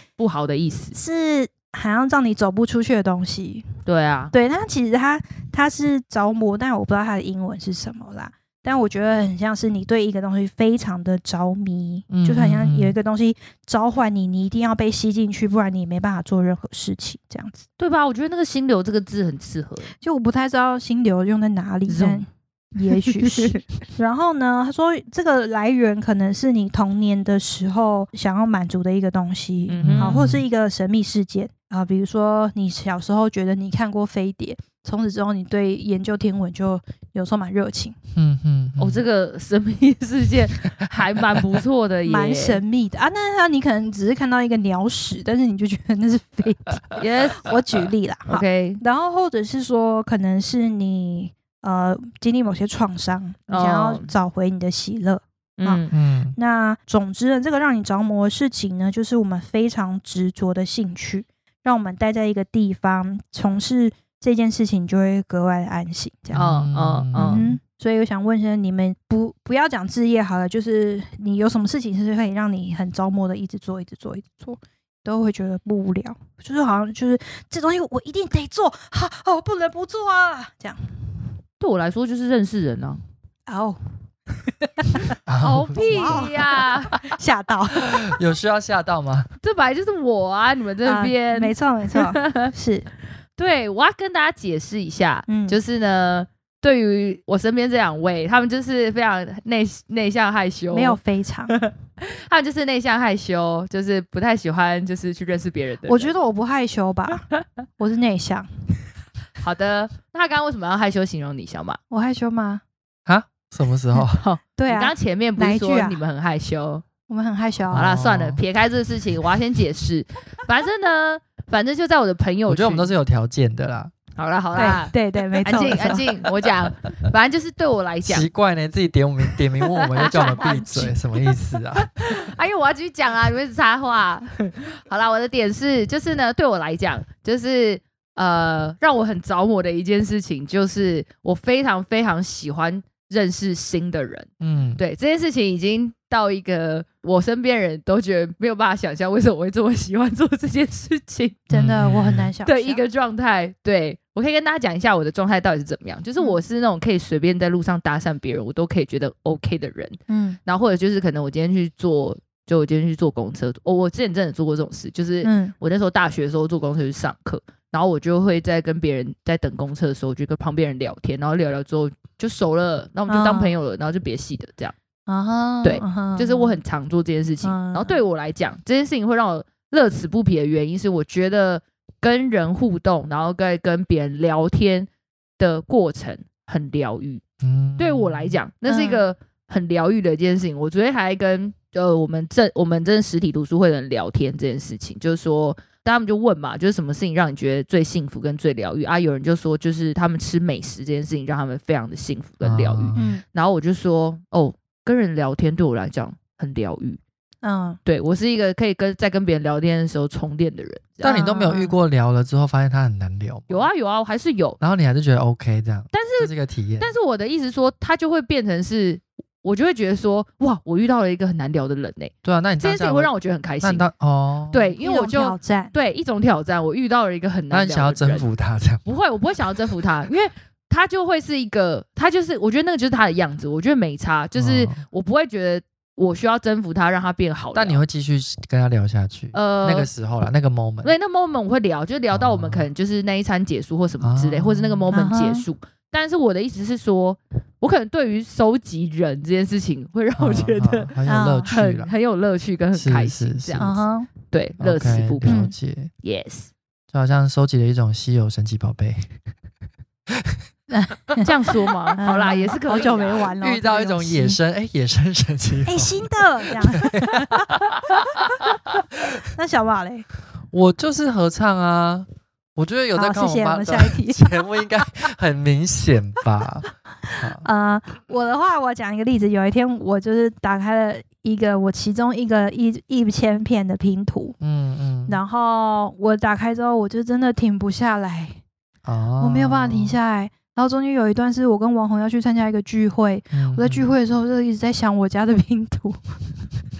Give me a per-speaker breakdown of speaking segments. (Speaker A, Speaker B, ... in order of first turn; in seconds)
Speaker A: 0.2-1.0, 3.9-4.3, 17.8-19.9, 21.9-22.2, 23.1-23.6, 29.7-30.2, 38.8-42.6, 47.0-47.5, 48.3-48.8, 53.5-54.1, 55.6-55.9, 66.3-67.5, 81.6-83.0, 85.4-87.0, 89.4-92.5, 93.4-101.0, 101.5-106.1, 109.4-111.8, 114.1-116.8, 117.7-122.9, 124.2-128.3, 129.7-151.5, 152.4-174.7, 175.6-184.9, 185.4-187.2, 187.8-207.0, 207.8-211.2, 213.5-214.6, 215.9-223.9, 224.5-228.2, 228.8-237.8, 239.3-239.9, 240.8-250.9, 251.5-253.7, 254.3-255.4, 256.0-256.5, 261.2-263.3
Speaker B: 0.9-3.6, 4.3-17.6, 20.0-38.0, 42.0-66.5, 67.1-80.9, 83.5-83.8, 84.5-88.2, 90.8-92.9, 95.3-95.5, 100.7-101.6, 105.8-107.2, 107.8-108.5, 111.9-112.6, 114.6-116.0, 117.1-117.9, 124.5-126.1, 130.1-130.6, 151.5-152.8, 160.1-160.4, 165.2-165.5, 173.1-173.5, 175.1-176.6, 177.4-178.0, 188.7-189.0, 202.9-203.2, 207.4-207.8, 211.1-211.7, 224.8-225.7, 244.9-245.4, 251.1-251.6, 253.6-254.1, 255.2-255.5, 260.7-261.3, 262.0-264.4, 265.6-267.5, 269.3-270.1, 272.9-274.4, 277.1-284.4, 285.1-288.4, 289.2-296.1
Speaker C: 12.1-12.9, 29.8-30.4, 38.1-39.0, 55.9-56.3, 66.3-67.6, 85.3-86.4, 87.9-89.3, 113.0-114.2, 117.7-118.4, 122.5-123.9, 125.5-126.0, 128.1-132.3, 144.4-144.8, 151.5-152.3, 187.4-188.4, 202.4-203.1, 211.0-213.7, 214.6-216.9, 222.2-224.7, 227.5-228.8, 234.3-234.8, 237.5-240.9, 242.1-242.7, 244.0-244.9, 250.2-251.9, 252.7-253.8, 254.6-255.9, 256.9-259.1, 260.1-260.4, 262.7-267.7, 270.5-277.4, 284.4-285.2, 288.8-290.0, 293.3-293.9